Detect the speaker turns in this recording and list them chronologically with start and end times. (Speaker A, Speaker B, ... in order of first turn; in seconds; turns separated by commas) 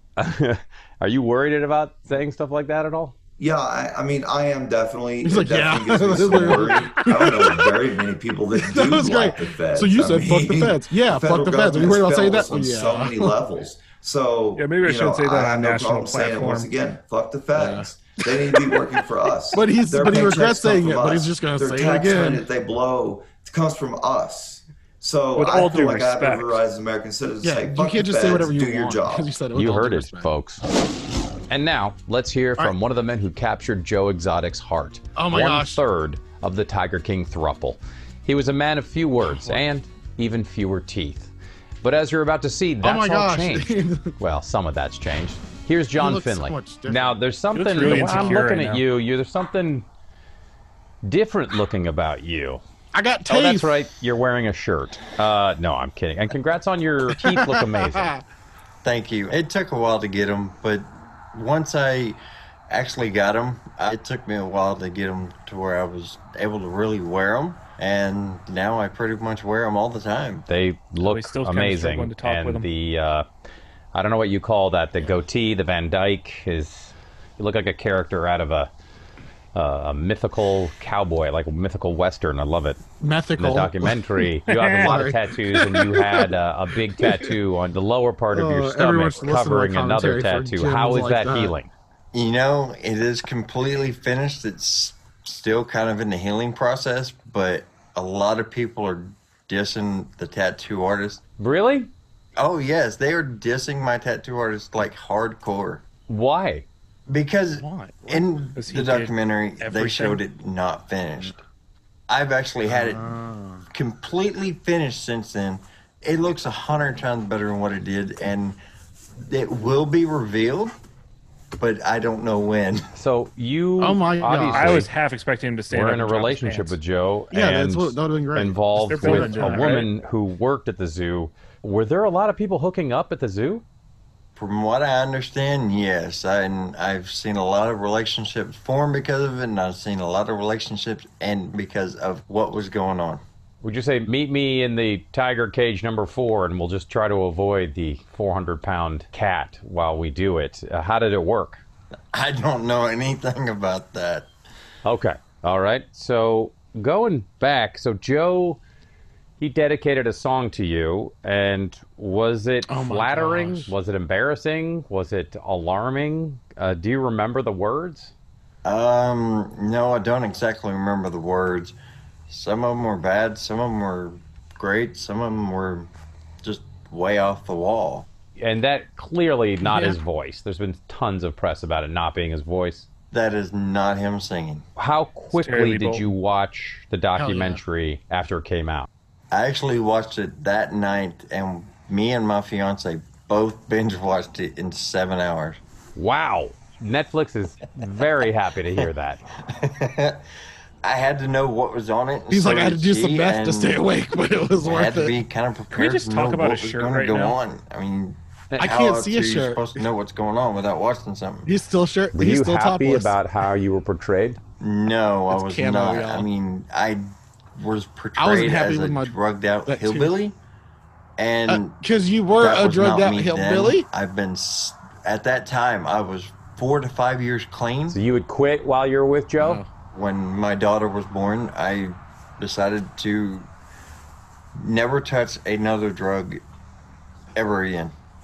Speaker A: 0.2-3.1, Speaker B: 3.4-29.4, Speaker C: 5.2-7.7, Speaker C: 8.5-13.3, Speaker D: 14.6-16.7, Speaker C: 17.6-18.8, Speaker C: 19.5-22.4, Speaker D: 25.4-26.6, Speaker C: 27.4-30.3, Speaker A: 29.5-30.6, Speaker A: 31.5-41.3, Speaker C: 35.1-35.8, Speaker C: 39.3-39.6, Speaker A: 41.8-49.9, Speaker C: 42.8-44.1, Speaker C: 46.0-48.5, Speaker D: 47.5-48.8, Speaker A: 51.0-52.6, Speaker C: 52.9-53.8, Speaker A: 53.3-58.1, Speaker C: 57.2-58.2, Speaker E: 58.8-70.5, Speaker A: 70.5-73.3, Speaker D: 71.0-72.7, Speaker A: 73.9-78.7, Speaker A: 79.5-82.8, Speaker C: 83.0-86.3, Speaker A: 83.4-91.7, Speaker C: 87.0-87.3, Speaker C: 88.3-91.5, Speaker E: 92.1-101.2, Speaker A: 101.4-101.9, Speaker E: 102.3-105.8, Speaker A: 106.1-106.7, Speaker E: 107.1-111.4, Speaker C: 107.6-108.2, Speaker D: 108.5-110.2, Speaker E: 112.1-113.1, Speaker C: 112.7-113.7, Speaker E: 113.7-118.6, Speaker E: 119.2-120.8, Speaker E: 121.5-122.9, Speaker A: 122.9-124.9, Speaker C: 123.8-124.8, Speaker D: 124.5-126.8, Speaker A: 125.7-133.6, Speaker C: 127.3-129.7, Speaker D: 128.9-129.9, Speaker E: 134.3-143.2, Speaker A: 143.6-151.6, Speaker E: 152.1-154.3, Speaker A: 154.8-158.6, Speaker A: 159.4-168.1, Speaker C: 162.7-163.7, Speaker E: 168.6-171.8, Speaker E: 172.3-175.9, Speaker E: 176.4-178.1, Speaker A: 178.4-182.9, Speaker C: 179.6-180.0, Speaker E: 183.1-184.7, Speaker A: 184.8-188.9, Speaker D: 185.3-186.1, Speaker C: 187.2-187.6, Speaker E: 189.3-195.6, Speaker A: 195.9-199.2, Speaker E: 199.5-200.2, Speaker E: 200.8-203.9, Speaker C: 202.3-205.2, Speaker E: 204.6-211.5, Speaker D: 205.7-207.4, Speaker C: 208.6-209.9, Speaker C: 211.4-213.2, Speaker A: 212.1-214.4, Speaker E: 214.6-220.3, Speaker C: 215.3-216.3, Speaker C: 218.2-220.1, Speaker E: 221.2-221.8, Speaker C: 221.5-223.9, Speaker E: 222.4-228.0, Speaker A: 227.9-229.6, Speaker C: 229.4-229.7, Speaker E: 229.9-233.5, Speaker E: 234.6-236.4, Speaker E: 237.3-237.9